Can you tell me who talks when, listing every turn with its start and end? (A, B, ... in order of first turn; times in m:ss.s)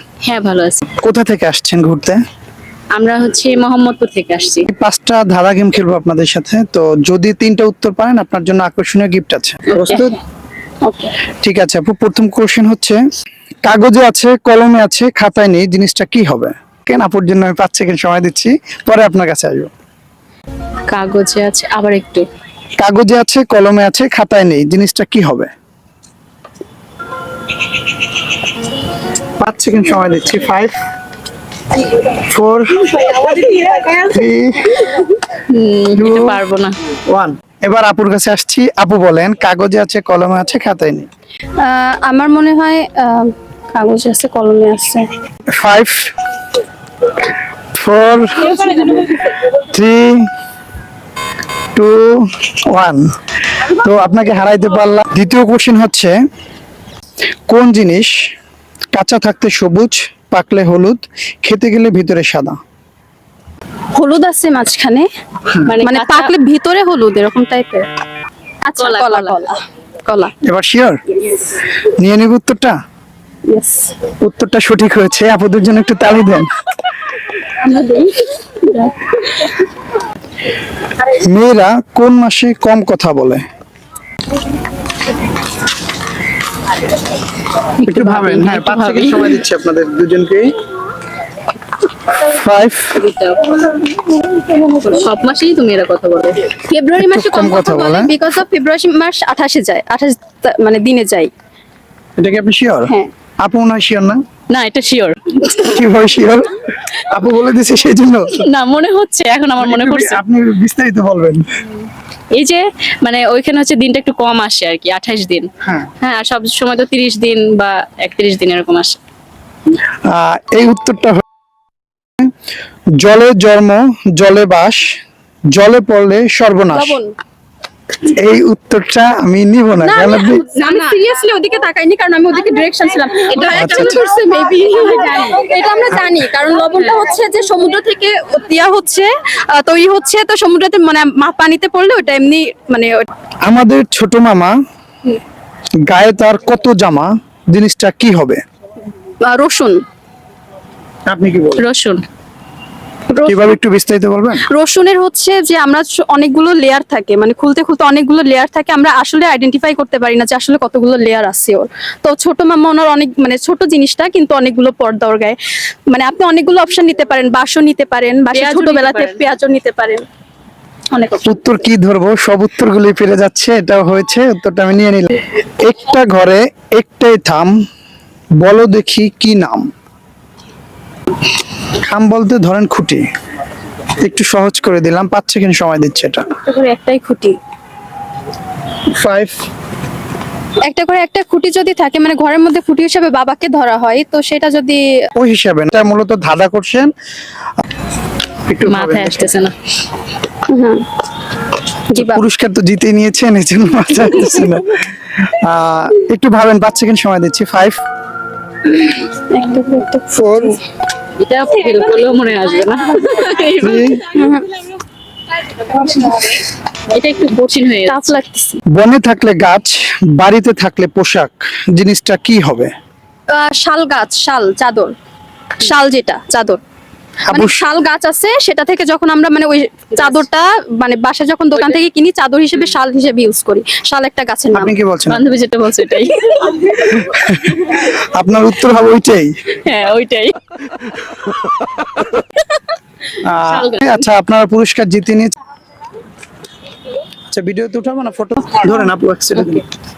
0:00.2-0:00.8 A
0:01.0-0:02.2 B
0:03.0-0:04.7 A
0:04.7-0:10.2 B
0:09.7-0:10.1 A
0:11.4-0:13.0 B
0:13.6-0:19.7 B
0:20.9-0:22.3 A
0:22.8-0:25.5 B
0:29.4-0:30.8 B
0:32.0-0:33.3 B
0:33.9-0:34.9 B
0:35.5-0:36.8 A
0:36.0-0:36.4 B
0:37.1-0:41.1 B
0:41.6-0:45.1 C
0:45.5-0:46.0 B
0:47.7-0:48.8 B
0:48.7-0:49.1 C
0:49.5-0:50.2 B
0:51.8-0:53.0 B
0:53.6-0:56.1 B
0:57.5-0:58.1 B
0:58.9-1:02.6 B
1:04.0-1:05.1 C
1:05.7-1:06.3 A
1:05.8-1:07.9 C
1:08.6-1:10.3 C
1:08.8-1:09.4 A
1:10.4-1:11.0 B
1:11.2-1:11.5 C
1:11.8-1:12.8 B
1:13.5-1:14.0 C
1:14.2-1:16.5 B
1:17.5-1:19.5 C
1:21.0-1:23.4 B
1:27.8-1:29.4 A
1:27.8-1:30.5 B
1:32.1-1:33.0 B
1:33.0-1:33.6 A
1:34.8-1:36.5 A
1:36.6-1:41.3 C
1:37.0-1:38.1 B
1:42.2-1:44.2 B
1:44.5-1:45.7 A
1:45.6-1:48.4 B
1:48.4-1:50.2 A
1:49.6-1:51.4 B
1:52.3-1:55.5 A
1:55.6-1:55.9 B
1:56.0-1:59.0 A
2:00.1-2:01.2 B
2:03.0-2:04.8 B
2:05.5-2:07.0 B
2:06.7-2:07.1 C
2:08.0-2:10.4 B
2:09.8-2:23.1 C
2:13.5-2:14.0 B
2:23.4-2:24.5 B
2:25.9-2:28.4 B
2:29.2-2:29.8 C
2:31.1-2:31.6 B
2:31.6-2:32.0 A
2:33.2-2:34.4 B
2:34.5-2:45.4 C
2:45.9-2:50.0 C
2:48.3-2:49.3 A
2:50.9-2:51.4 C
2:51.3-2:57.5 B
2:58.4-2:59.7 B
3:01.7-3:03.0 B
3:04.0-3:06.2 B
3:06.4-3:07.4 C
3:08.9-3:09.4 B
3:10.7-3:14.8 C
3:15.2-3:16.9 B
3:18.5-3:19.3 B
3:18.7-3:19.5 A
3:20.5-3:20.8 C
3:21.9-3:22.2 C
3:22.0-3:27.8 B
3:28.8-3:30.5 C
3:30.1-3:30.6 B
3:31.2-3:34.0 A
3:33.6-3:34.0 B
3:34.0-3:34.5 C
3:35.8-3:36.3 C
3:36.9-3:38.2 A
3:37.9-3:38.6 C
3:38.7-3:42.7 B
3:43.3-3:44.9 C
3:45.6-3:46.6 C
3:47.3-3:47.6 B
3:47.3-3:54.7 C
3:54.5-3:55.2 B
3:55.1-3:56.7 A
3:56.8-3:59.3 B
3:59.6-4:00.4 A
4:03.2-4:05.3 B
4:03.4-4:04.0 A
4:07.3-4:09.6 B